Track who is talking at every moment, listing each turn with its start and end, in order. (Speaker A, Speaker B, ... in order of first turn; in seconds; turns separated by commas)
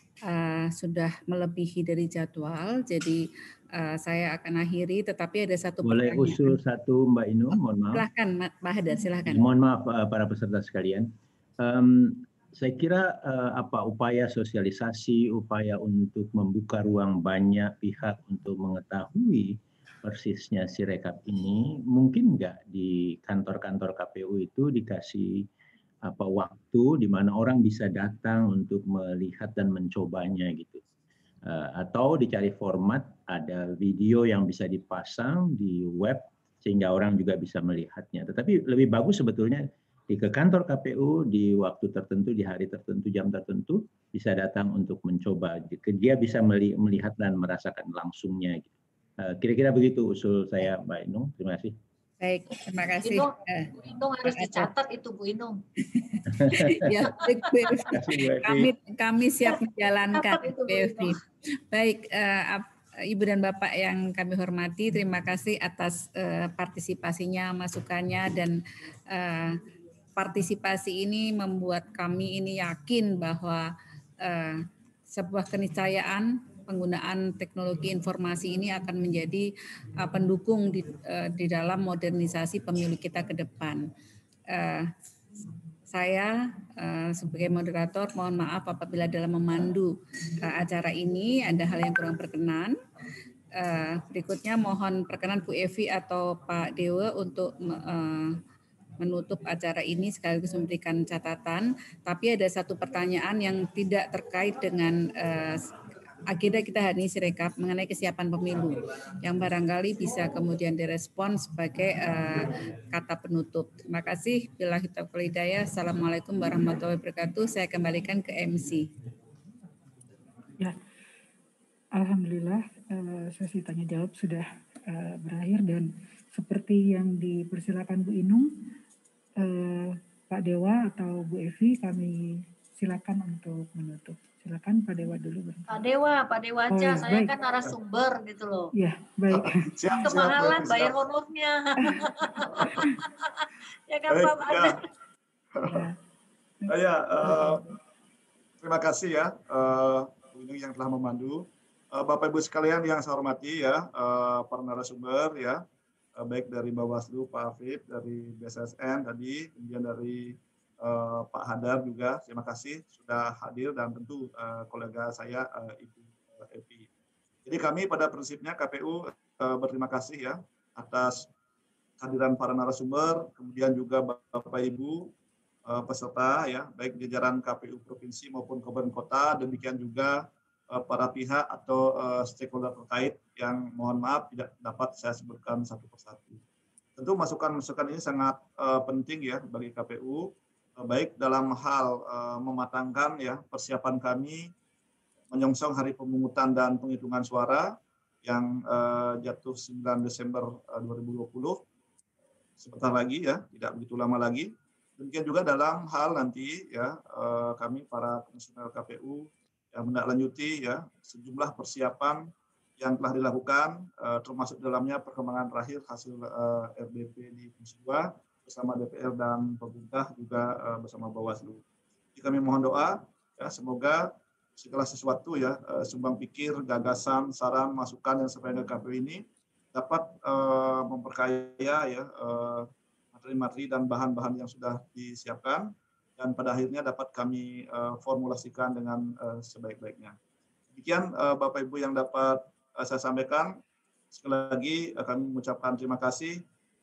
Speaker A: 0.2-3.2, Speaker A: 3.8-6.6, Speaker B: 5.8-8.1, Speaker A: 7.9-9.5, Speaker B: 9.3-25.5, Speaker B: 26.1-30.8, Speaker B: 31.4-51.8, Speaker A: 52.2-54.7, Speaker C: 53.0-55.6, Speaker A: 55.9-61.2, Speaker B: 56.5-56.9, Speaker C: 57.4-57.9, Speaker B: 57.9-58.7, Speaker C: 60.1-61.1, Speaker A: 61.7-68.6, Speaker A: 69.1-69.6, Speaker A: 70.2-79.5, Speaker A: 80.0-83.9, Speaker A: 84.5-84.9, Speaker A: 85.9-92.8, Speaker A: 93.6-98.4, Speaker A: 99.0-105.6, Speaker A: 106.3-118.9, Speaker D: 122.0-128.5, Speaker D: 129.4-135.8, Speaker C: 135.7-138.7, Speaker D: 136.7-137.3, Speaker D: 138.7-140.5, Speaker E: 139.4-141.0, Speaker C: 140.0-144.8, Speaker D: 141.8-142.1, Speaker E: 144.1-144.8, Speaker E: 145.6-145.9, Speaker D: 145.7-145.9, Speaker D: 146.6-147.7, Speaker E: 146.7-147.6, Speaker E: 148.6-155.6, Speaker E: 156.2-166.9, Speaker E: 167.5-171.3, Speaker E: 172.0-175.1, Speaker E: 175.7-186.4, Speaker E: 187.0-194.5, Speaker E: 195.3-201.6, Speaker E: 202.6-221.6, Speaker E: 222.2-240.2, Speaker E: 240.7-243.6, Speaker E: 244.1-246.4